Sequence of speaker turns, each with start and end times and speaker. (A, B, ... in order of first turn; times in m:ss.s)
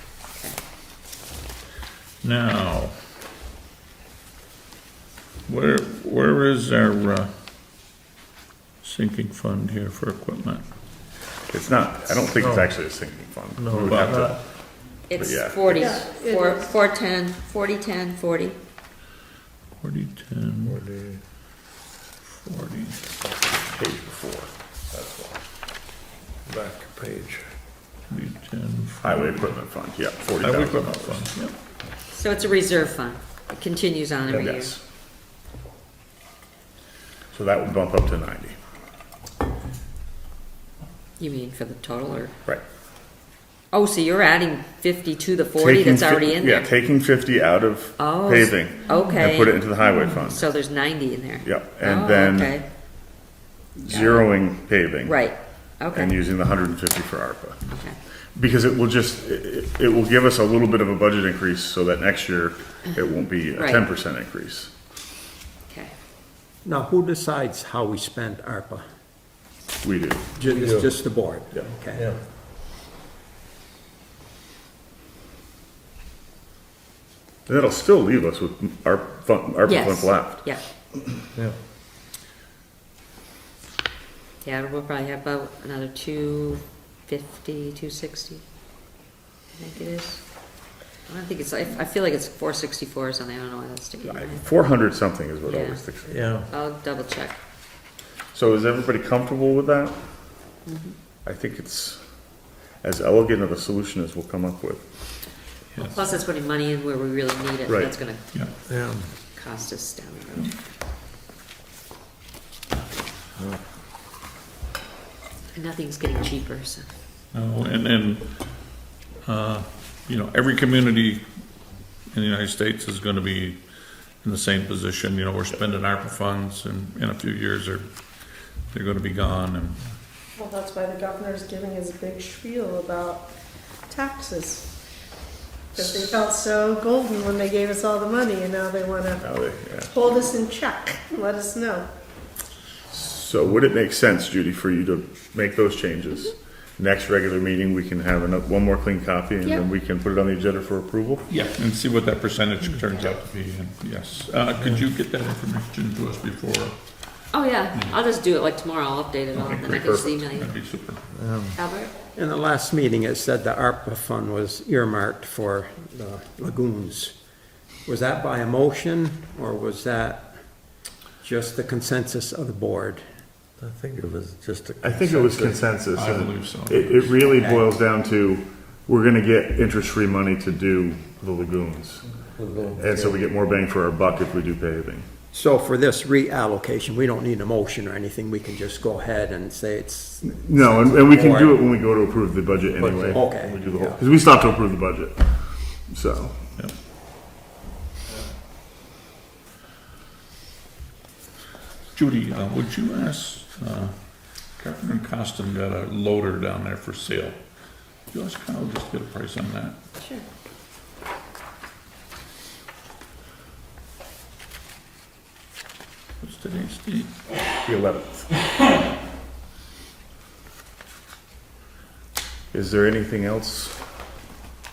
0:02.2-0:02.9 A
0:05.5-0:07.3 A
0:08.8-0:10.6 A
0:11.5-0:16.0 B
0:12.4-0:12.7 C
0:13.6-0:14.3 C
0:13.8-0:14.4 A
0:15.1-0:18.6 D
0:15.8-0:16.7 E
0:19.8-0:20.8 A
0:20.6-0:21.2 C
0:22.3-0:23.0 A
0:23.6-0:24.6 B
0:24.9-0:25.3 C
0:26.5-0:27.5 C
0:28.1-0:29.4 A
0:29.0-0:31.3 B
0:30.4-0:31.5 A
0:32.1-0:34.7 D
0:34.3-0:34.8 B
0:37.3-0:38.6 B
0:41.2-0:42.3 D
0:43.7-0:46.7 D
0:45.6-0:50.5 B
0:48.0-0:52.7 D
0:51.4-0:52.6 B
0:53.8-1:04.7 B
0:53.9-0:54.4 D
0:55.0-0:56.1 D
0:57.7-0:58.0 D
1:03.5-1:03.8 D
1:06.6-1:08.8 F
1:09.8-1:10.3 B
1:10.4-1:12.1 F
1:10.5-1:11.0 C
1:11.9-1:12.2 C
1:17.4-1:20.5 B
1:19.6-1:20.6 D
1:24.4-1:28.4 D
1:29.5-1:34.5 D
1:34.1-1:36.1 B
1:35.5-1:37.4 D
1:36.1-1:36.5 C
1:38.3-1:40.5 B
1:40.6-1:41.0 D
1:41.2-1:44.8 B
1:45.7-1:46.0 A
1:45.8-1:48.5 D
1:47.7-1:48.0 B
1:48.7-1:49.1 C
1:49.3-1:50.6 D
1:55.5-1:56.9 D
1:57.3-2:01.2 A
2:02.1-2:03.6 A
2:04.2-2:07.8 A
2:08.7-2:09.9 A
2:10.4-2:13.3 E
2:13.9-2:14.7 E
2:15.7-2:19.2 E
2:19.2-2:19.9 B
2:19.9-2:21.9 E
2:22.9-2:31.2 B
2:31.3-2:37.0 A
2:37.3-2:40.5 D
2:39.3-2:39.7 A
2:39.4-2:40.2 B
2:40.2-2:41.0 A
2:41.1-2:41.6 C
2:41.5-2:41.9 D
2:42.1-2:53.1 F
2:53.6-2:55.7 C
2:54.8-3:05.1 B
2:55.9-2:57.1 A
2:57.1-2:57.7 F
3:02.4-3:03.2 C
3:05.3-3:11.6 F
3:10.2-3:16.4 B
3:12.8-3:13.5 C
3:13.1-3:14.0 F
3:21.9-3:23.9 A
3:24.5-3:27.4 A
3:28.1-3:29.8 A
3:36.2-3:37.1 A
3:37.6-3:38.3 B
3:42.5-3:43.8 B